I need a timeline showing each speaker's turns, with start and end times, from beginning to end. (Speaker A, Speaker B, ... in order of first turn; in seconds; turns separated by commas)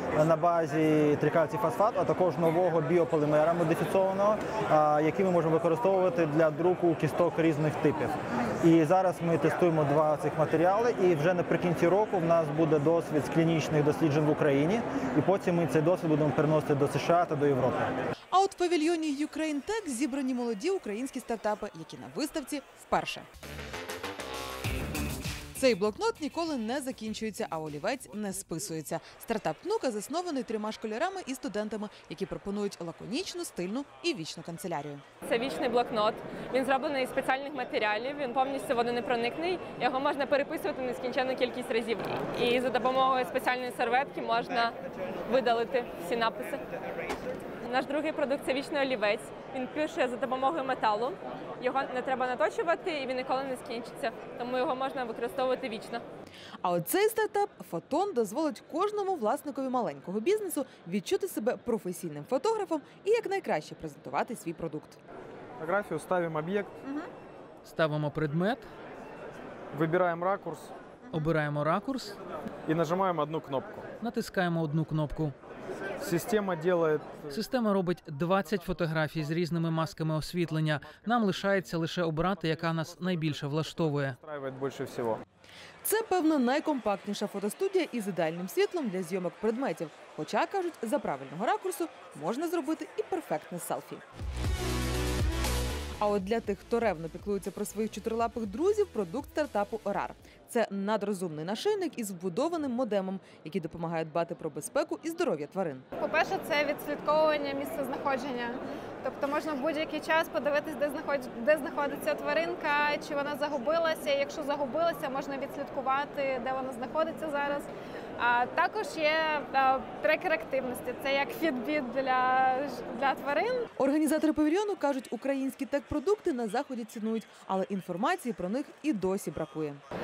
Speaker A: 0.1-17.9, Speaker B: 18.3-23.3, Speaker B: 25.6-35.0, Speaker C: 35.2-44.8, Speaker C: 45.3-46.6, Speaker C: 47.6-56.0, Speaker B: 56.6-65.0, Speaker D: 65.6-66.8, Speaker E: 67.7-68.7, Speaker D: 69.7-70.7, Speaker E: 71.1-72.2, Speaker D: 72.7-73.9, Speaker E: 74.0-75.3, Speaker D: 76.0-77.4, Speaker E: 77.3-84.2, Speaker D: 81.0-81.7, Speaker D: 82.3-85.2, Speaker B: 85.8-94.0, Speaker B: 96.0-105.8, Speaker F: 106.0-123.7, Speaker B: 123.8-129.8